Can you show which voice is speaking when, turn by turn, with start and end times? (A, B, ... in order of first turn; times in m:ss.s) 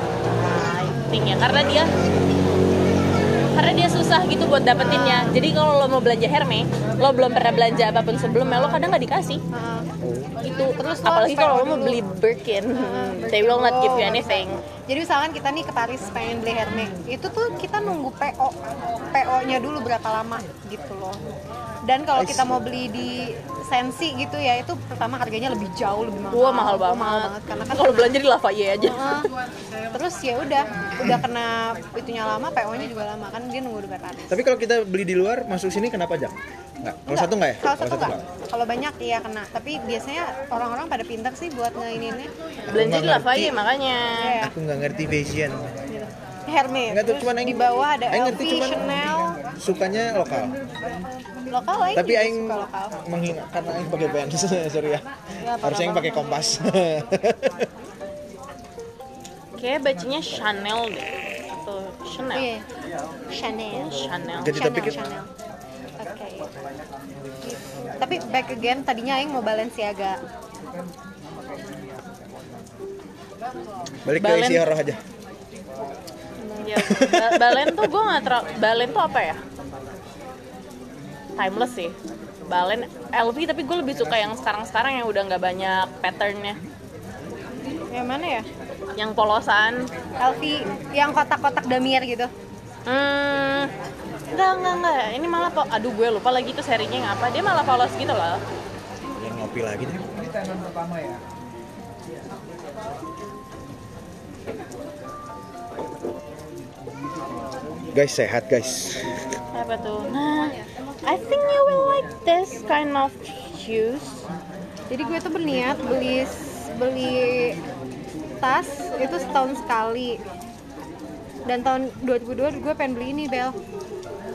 0:00.3-0:01.9 A
0:03.5-0:09.4 A
0:04.8-0:05.3 B
0:09.5-0:09.9 B
0:10.0-0:10.3 C
0:10.4-0:14.6 A
0:10.5-0:12.0 B
0:12.7-0:21.2 B
0:21.8-0:28.2 B
0:22.1-0:22.6 C
0:26.3-0:29.1 A
0:28.8-0:29.3 B
0:29.9-0:34.4 B
0:34.3-0:38.2 C
0:37.1-0:42.3 B
0:42.7-0:43.6 C
0:42.7-0:44.3 A
0:44.2-0:44.5 B
0:44.4-0:45.7 C
0:45.9-0:49.4 B
0:46.9-0:48.8 C
0:49.6-0:50.5 C
0:51.5-0:53.0 B
0:51.9-0:55.0 C
0:55.4-0:56.4 B
0:55.6-0:57.7 C
0:59.6-1:02.5 A
1:02.3-1:02.6 B
1:03.3-1:05.3 B
1:03.7-1:04.7 A
1:04.4-1:05.0 C
1:06.0-1:06.5 B
1:07.4-1:10.2 B
1:14.0-1:15.0 C
1:14.2-1:14.6 A
1:16.5-1:19.4 A
1:16.8-1:17.8 C
1:21.4-1:22.0 A
1:22.5-1:26.6 A
1:27.9-1:28.5 B
1:29.0-1:29.9 A
1:30.2-1:32.3 B
1:32.8-1:33.7 A
1:34.3-1:38.4 A
1:39.2-1:40.2 C
1:47.9-1:49.1 C
1:49.5-1:54.2 A
1:54.9-1:57.6 B
1:58.4-2:00.2 B
2:01.4-2:03.5 B